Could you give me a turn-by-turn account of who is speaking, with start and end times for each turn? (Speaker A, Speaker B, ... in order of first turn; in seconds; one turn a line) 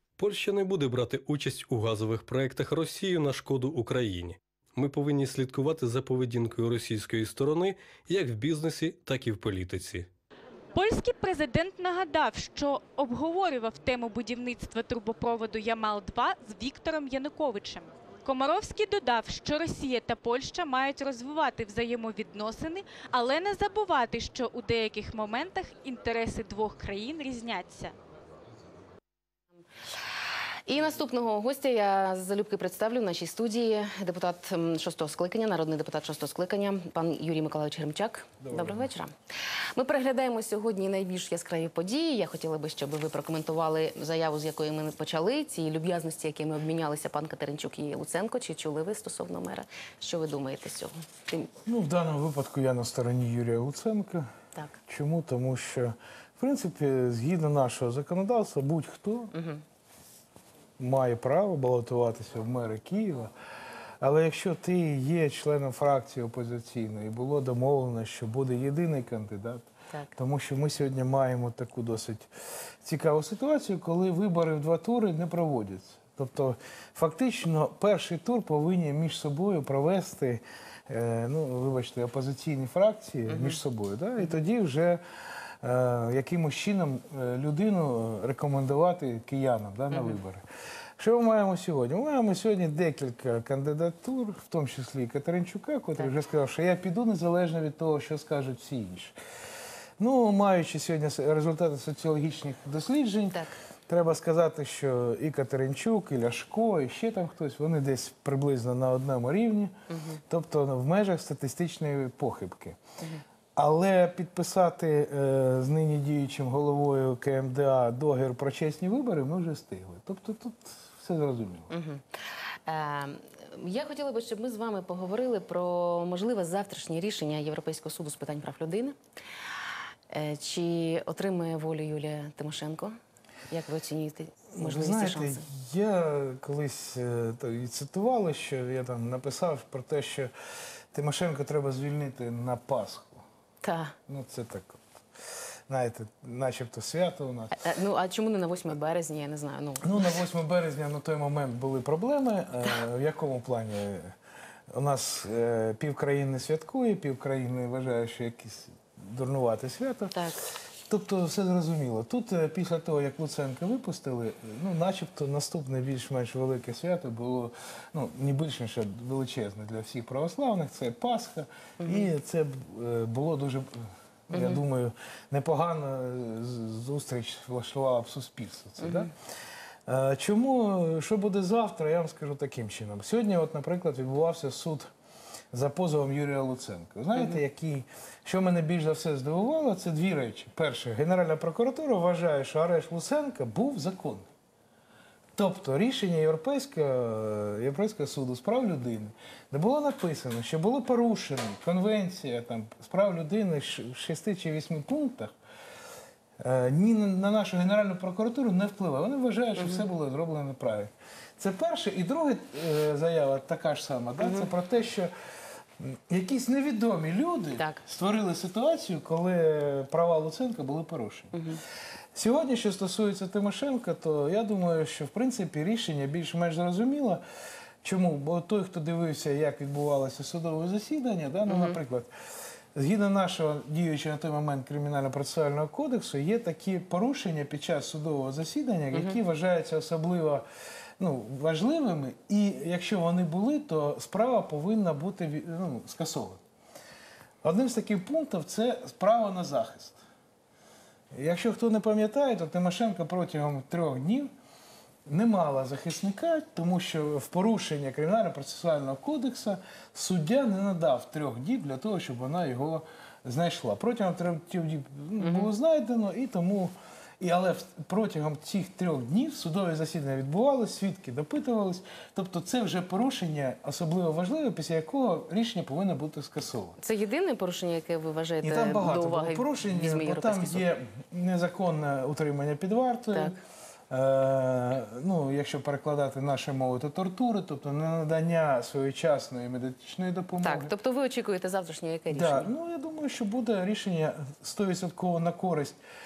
Speaker A: 0.2-10.1
Speaker B: 10.7-27.9
Speaker C: 30.7-39.1
Speaker D: 38.4-38.9
Speaker C: 39.7-51.5
Speaker D: 51.6-54.3
Speaker D: 54.9-59.3
Speaker C: 59.3-59.6
Speaker D: 60.8-63.3
Speaker D: 64.0-72.3
Speaker D: 72.8-90.4
Speaker C: 83.3-83.6
Speaker C: 89.9-90.2
Speaker D: 91.0-99.1
Speaker D: 100.0-109.8
Speaker C: 109.9-110.2
Speaker D: 110.3-112.8
Speaker D: 113.5-121.7
Speaker C: 121.7-122.0
Speaker C: 122.7-129.0
Speaker C: 130.1-132.9
Speaker C: 133.5-135.4
Speaker D: 134.5-140.3
Speaker D: 140.9-143.2
Speaker C: 143.6-143.9
Speaker D: 144.1-144.8
Speaker D: 145.7-147.7
Speaker C: 147.6-150.2
Speaker D: 149.8-154.2
Speaker D: 154.7-160.1
Speaker C: 160.1-160.4
Speaker D: 160.9-179.1
Speaker C: 171.8-172.1
Speaker C: 174.3-174.6
Speaker C: 178.8-179.1
Speaker D: 179.9-184.9
Speaker D: 185.5-194.3
Speaker D: 195.3-205.3
Speaker D: 206.4-215.1
Speaker C: 209.6-209.8
Speaker C: 214.2-214.5
Speaker D: 215.8-221.4
Speaker C: 221.3-221.6
Speaker D: 222.1-227.2
Speaker D: 227.8-232.1
Speaker C: 231.5-231.8
Speaker D: 232.7-240.4
Speaker C: 238.9-239.2
Speaker D: 241.0-246.4
Speaker D: 247.4-250.0
Speaker D: 251.1-254.3
Speaker D: 255.1-276.8
Speaker C: 265.2-265.5
Speaker C: 276.8-280.6
Speaker D: 278.4-283.4
Speaker C: 283.1-283.4
Speaker D: 283.9-290.7
Speaker C: 290.4-292.5
Speaker D: 292.1-295.8